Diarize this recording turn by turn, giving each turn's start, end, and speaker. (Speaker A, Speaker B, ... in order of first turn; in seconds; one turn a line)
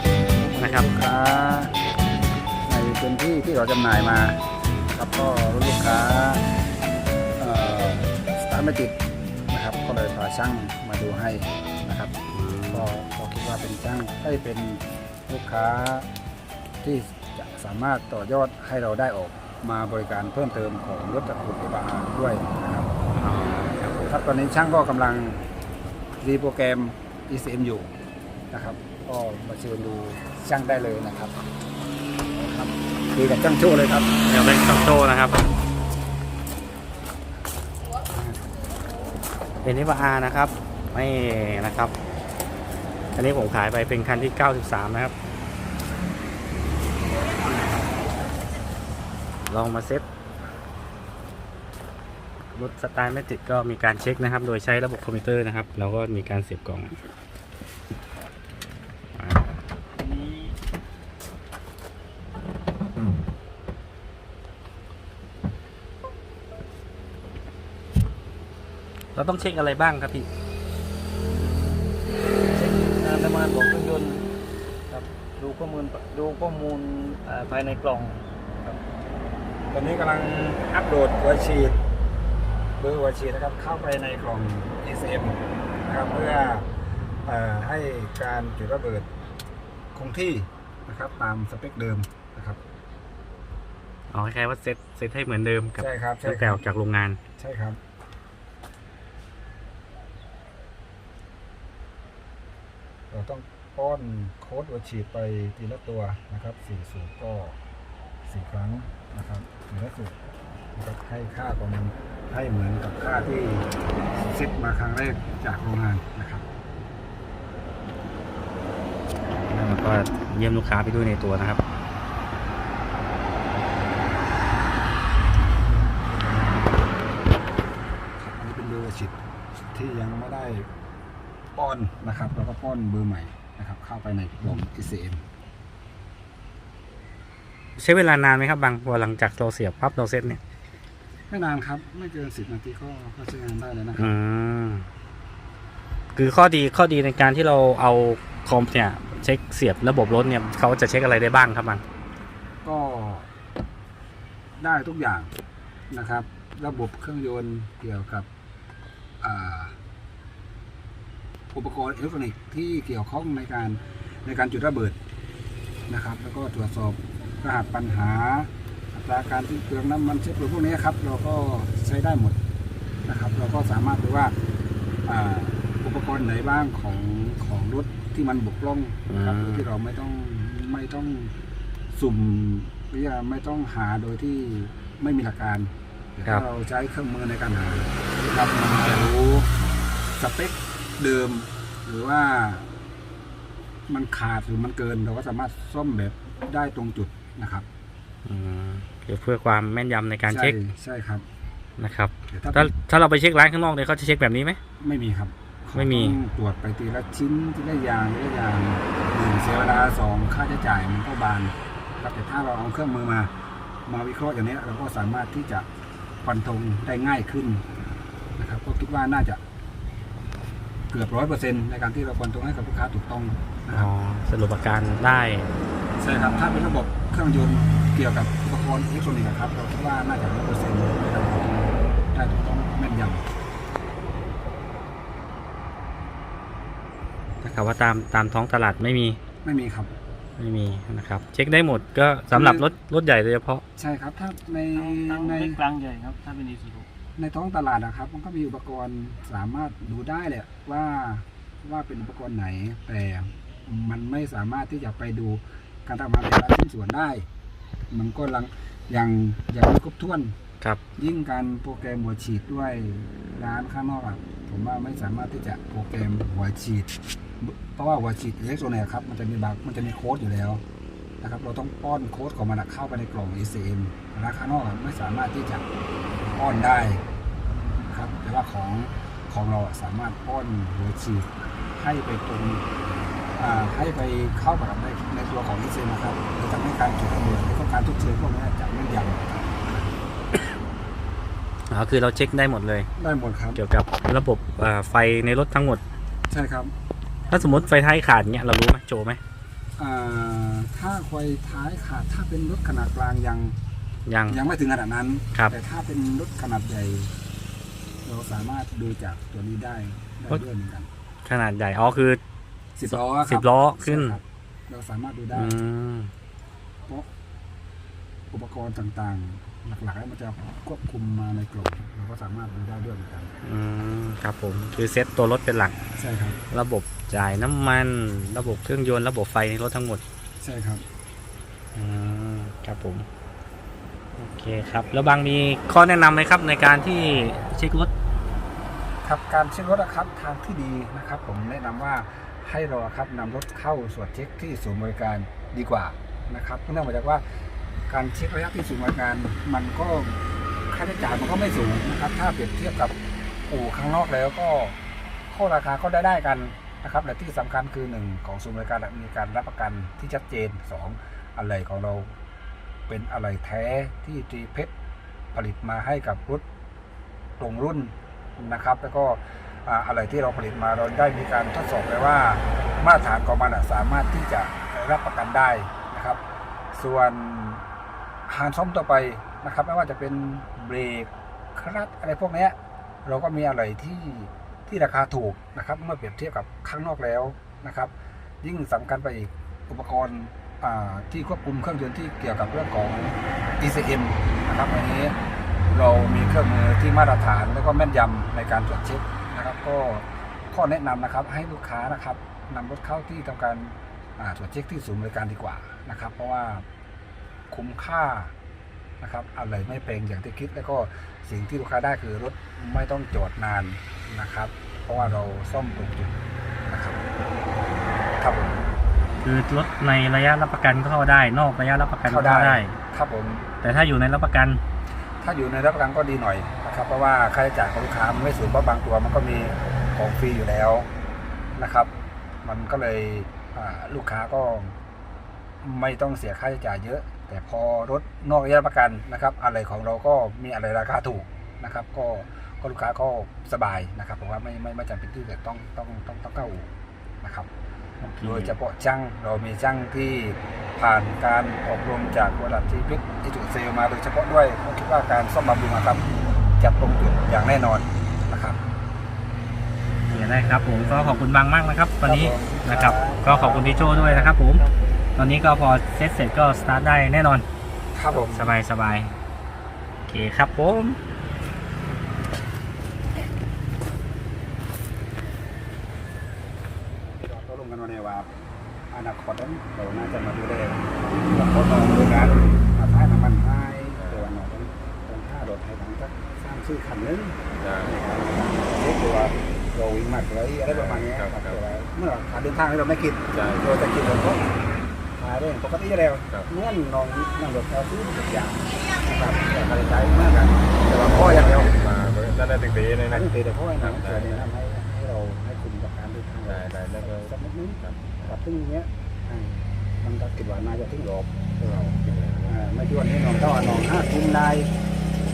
Speaker A: 0.4-1.8
Speaker B: 0.6-0.9
Speaker A: 2.7-4.4
Speaker A: 4.9-6.5
Speaker A: 7.4-9.0
Speaker A: 9.5-12.1
Speaker B: 12.3-12.9
Speaker A: 12.7-16.1
Speaker A: 16.8-23.1
Speaker B: 23.1-24.2
Speaker A: 24.1-25.4
Speaker A: 26.2-27.9
Speaker A: 28.5-31.4
Speaker A: 32.3-34.1
Speaker B: 34.2-35.5
Speaker A: 38.1-38.5
Speaker B: 39.6-41.9
Speaker B: 43.1-45.1
Speaker B: 49.5-50.0
Speaker B: 52.5-57.0
Speaker B: 59.2-59.5
Speaker C: 60.0-60.5
Speaker B: 69.2-70.3
Speaker C: 71.5-71.8
Speaker C: 72.5-74.3
Speaker C: 74.9-78.3
Speaker A: 79.7-81.8
Speaker A: 82.8-86.7
Speaker A: 87.2-89.1
Speaker A: 90.0-92.6
Speaker B: 94.1-97.2
Speaker A: 95.8-96.6
Speaker A: 97.4-97.8
Speaker A: 103.1-107.6
Speaker A: 108.2-110.2
Speaker A: 110.7-116.5
Speaker B: 119.2-121.6
Speaker A: 128.2-129.2
Speaker A: 129.7-130.7
Speaker A: 131.6-135.2
Speaker B: 137.8-140.4
Speaker A: 141.3-144.1
Speaker B: 144.0-144.9
Speaker B: 146.2-151.8
Speaker A: 152.6-153.3
Speaker A: 154.6-155.3
Speaker A: 155.9-158.3
Speaker A: 159.2-159.8
Speaker A: 161.5-165.0
Speaker A: 165.9-172.4
Speaker A: 173.1-174.3
Speaker A: 175.1-181.3
Speaker B: 179.1-179.7
Speaker A: 181.9-189.5
Speaker A: 190.1-192.7
Speaker A: 193.9-197.7
Speaker B: 198.3-200.6
Speaker A: 200.3-201.2
Speaker B: 201.8-204.6
Speaker A: 202.3-202.7
Speaker A: 204.8-213.3
Speaker B: 205.7-206.2
Speaker A: 213.9-215.7
Speaker A: 216.2-217.7
Speaker A: 218.4-219.4
Speaker A: 220.9-223.9
Speaker B: 223.7-225.5
Speaker A: 226.0-233.2
Speaker B: 237.4-239.2
Speaker A: 239.4-239.9
Speaker B: 240.4-243.6
Speaker A: 242.3-242.7
Speaker A: 243.8-245.6
Speaker C: 244.7-246.9
Speaker A: 247.2-257.3
Speaker A: 257.9-260.4
Speaker A: 260.9-270.6
Speaker A: 271.2-275.7
Speaker A: 276.3-277.0
Speaker A: 277.8-282.6
Speaker A: 283.4-290.0
Speaker B: 291.7-292.9
Speaker A: 293.0-293.6
Speaker B: 293.5-295.8
Speaker A: 296.3-296.7
Speaker B: 297.3-299.2
Speaker A: 299.8-303.6
Speaker B: 304.1-304.4
Speaker A: 304.3-307.1
Speaker A: 308.1-310.9
Speaker B: 311.2-312.2
Speaker A: 312.8-315.6
Speaker B: 312.9-314.2
Speaker B: 315.3-316.1
Speaker A: 318.3-323.3
Speaker B: 323.4-325.8
Speaker A: 325.9-326.4
Speaker B: 326.5-330.0
Speaker A: 330.4-330.8
Speaker B: 331.8-333.1
Speaker B: 334.2-337.9
Speaker A: 339.0-353.0
Speaker A: 353.5-354.8
Speaker A: 355.3-362.2
Speaker A: 362.9-364.7
Speaker A: 365.3-366.4
Speaker A: 367.4-376.2
Speaker A: 376.7-377.6
Speaker A: 378.3-395.2
Speaker A: 395.7-406.7
Speaker A: 407.5-408.3
Speaker A: 409.0-417.0
Speaker A: 418.1-418.7
Speaker B: 419.2-422.8
Speaker A: 422.1-423.6
Speaker B: 423.6-424.6
Speaker A: 425.2-430.9
Speaker A: 431.5-431.9
Speaker A: 432.4-434.8
Speaker A: 435.6-447.5
Speaker B: 448.0-448.6
Speaker A: 448.2-458.6
Speaker B: 460.1-464.6
Speaker A: 462.0-464.4
Speaker B: 465.1-467.4
Speaker A: 467.9-468.6
Speaker B: 468.1-469.1
Speaker B: 470.1-471.0
Speaker A: 477.1-478.3
Speaker A: 478.9-494.5
Speaker C: 487.6-488.0
Speaker C: 490.8-491.6
Speaker C: 493.4-493.7
Speaker A: 495.2-502.0
Speaker C: 501.0-503.3
Speaker A: 502.7-514.7
Speaker C: 503.9-504.5
Speaker C: 506.5-507.3
Speaker C: 508.0-508.3
Speaker C: 512.1-512.6